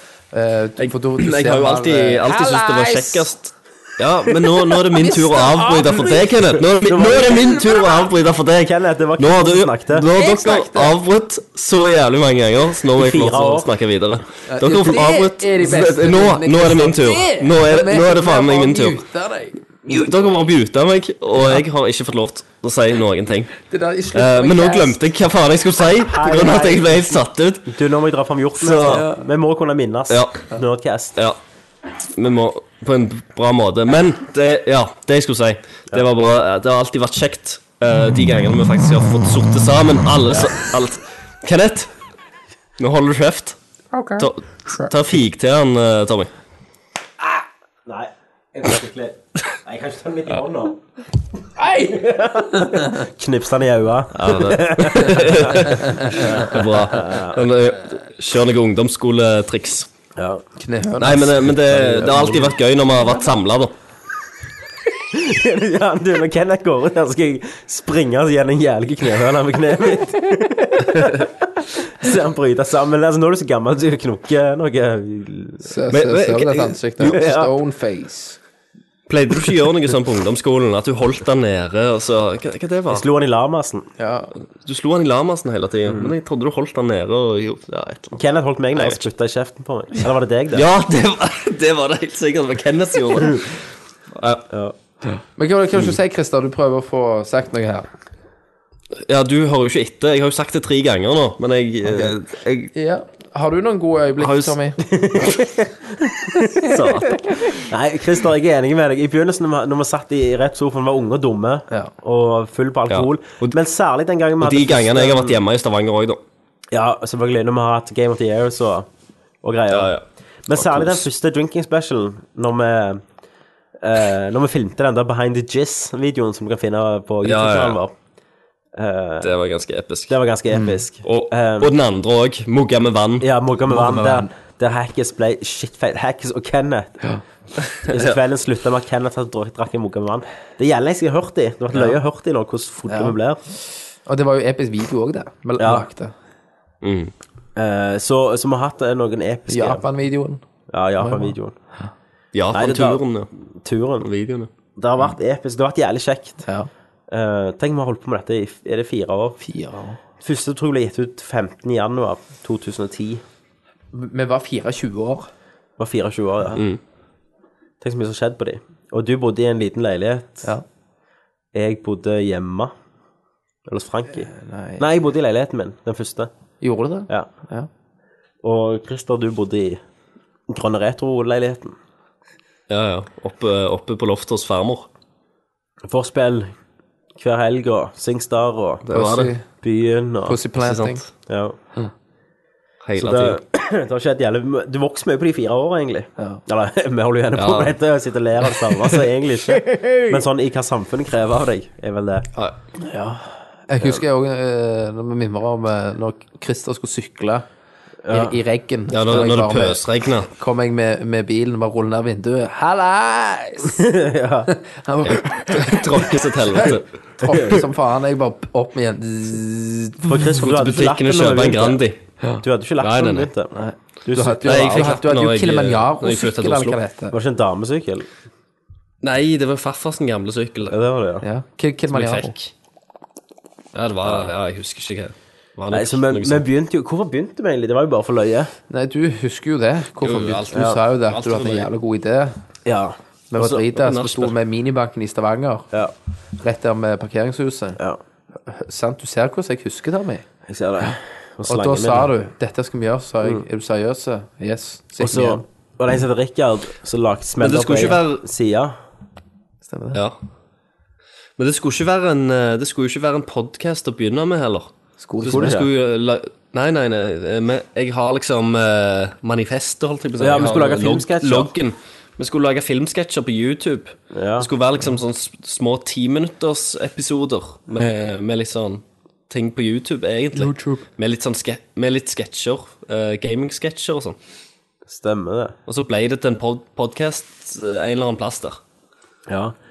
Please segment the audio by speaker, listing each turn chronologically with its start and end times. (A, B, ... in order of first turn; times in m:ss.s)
0:00.3-0:03.3 A
0:00.8-0:19.0 B
0:04.9-0:06.2 A
0:06.7-0:07.9 C
0:08.6-0:10.1 C
0:10.1-0:11.0 A
0:13.0-0:13.7 C
0:14.5-0:20.1 A
0:19.9-0:23.6 B
0:23.7-0:25.0 A
0:24.1-0:27.7 B
0:26.0-0:31.2 C
0:28.6-0:29.0 B
0:28.9-0:29.2 A
0:30.1-0:30.4 B
0:32.2-0:41.9 B
0:42.8-0:43.6 B
0:43.9-0:44.9 A
0:44.2-0:46.3 B
0:47.8-0:50.8 C
0:51.6-0:52.0 A
0:51.7-0:57.5 C
0:52.5-0:53.0 A
0:54.1-0:59.9 B
1:00.2-1:00.4 C
1:00.6-1:02.5 A
1:01.0-1:03.7 B
1:05.1-1:15.7 C
1:15.6-1:18.4 A
1:15.9-1:17.1 B
1:17.0-1:17.5 C
1:19.1-1:23.0 B
1:22.9-1:23.9 C
1:24.0-1:24.3 A
1:24.6-1:28.2 B
1:25.9-1:26.1 C
1:28.1-1:30.6 C
1:28.8-1:29.0 B
1:30.5-1:33.6 B
1:34.1-1:34.4 B
1:34.5-1:34.7 C
1:35.4-1:37.9 A
1:39.0-1:42.7 B
1:42.7-1:44.8 A
1:44.2-1:44.6 B
1:44.8-1:45.7 C
1:46.6-1:55.4 C
1:46.6-1:47.3 B
1:52.9-1:53.6 B
1:54.4-1:56.2 B
1:56.7-1:58.9 C
1:59.4-1:59.9 C
1:59.7-2:01.0 B
2:00.5-2:03.0 C
2:03.8-2:07.9 C
2:07.2-2:07.8 B
2:08.7-2:09.3 C
2:09.2-2:10.2 B
2:10.1-2:11.7 C
2:11.0-2:13.3 B
2:13.2-2:17.0 C
2:17.8-2:18.2 B
2:17.9-2:23.4 C
2:22.9-2:23.2 A
2:24.0-2:26.1 A
2:25.6-2:25.9 C
2:26.8-2:27.1 B
2:27.6-2:29.8 C
2:29.5-2:30.4 A
2:30.7-2:31.6 C
2:31.0-2:31.9 A
2:32.3-2:33.3 B
2:32.5-2:34.1 C
2:34.0-2:34.5 B
2:34.8-2:36.4 C
2:37.1-2:39.4 C
2:39.4-2:40.0 A
2:40.2-2:43.2 C
2:43.9-2:45.3 A
2:45.8-2:46.6 C
2:47.8-2:50.5 C
2:51.5-2:52.7 C
2:53.6-2:56.3 C
2:54.2-2:54.8 A
2:56.6-2:57.7 A
2:58.4-2:59.8 C
3:00.5-3:01.8 C
3:02.7-3:04.9 B
3:05.8-3:06.5 C
3:07.2-3:08.8 C
3:08.8-3:09.3 B
3:08.9-3:09.4 A
3:09.6-3:10.4 C
3:10.3-3:11.0 A
3:10.6-3:11.0 B
3:11.3-3:11.6 C
3:12.8-3:13.4 B
3:13.0-3:22.3 C
3:17.3-3:17.7 B
3:19.7-3:20.0 A
3:22.8-3:27.4 A
3:28.0-3:28.4 C
3:28.1-3:33.8 A
3:28.9-3:30.3 B
3:33.7-3:34.5 C
3:34.5-3:35.8 A
3:35.0-3:36.9 B
3:36.5-3:40.2 A
3:37.2-3:37.6 C
3:40.0-3:41.8 C
3:40.2-3:42.0 B
3:42.4-3:43.5 C
3:42.8-3:43.3 B
3:43.6-3:47.1 A
3:44.0-3:45.0 C
3:44.4-3:46.8 B
3:47.1-3:48.1 C
3:49.0-3:50.7 B
3:50.6-3:51.2 C
3:51.2-3:52.3 A
3:51.9-3:52.5 B
3:53.7-3:56.4 B
3:54.0-3:54.3 C
3:55.7-3:58.5 C
3:58.7-4:02.4 A
4:00.0-4:01.7 B
4:00.5-4:00.8 C
4:02.6-4:03.6 C
4:03.3-4:05.7 A
4:03.8-4:04.3 B
4:06.4-4:07.8 A
4:08.4-4:10.2 A
4:10.5-4:12.1 C
4:11.5-4:15.4 A
4:15.0-4:18.8 C
4:17.4-4:18.2 B
4:19.7-4:20.0 A
4:21.4-4:44.2 B
4:25.0-4:25.6 A
4:25.3-4:25.7 C
4:30.2-4:31.5 C
4:34.1-4:34.5 C
4:40.4-4:40.8 A
4:44.9-4:45.6 C
4:45.7-4:48.6 B
4:49.3-4:49.6 C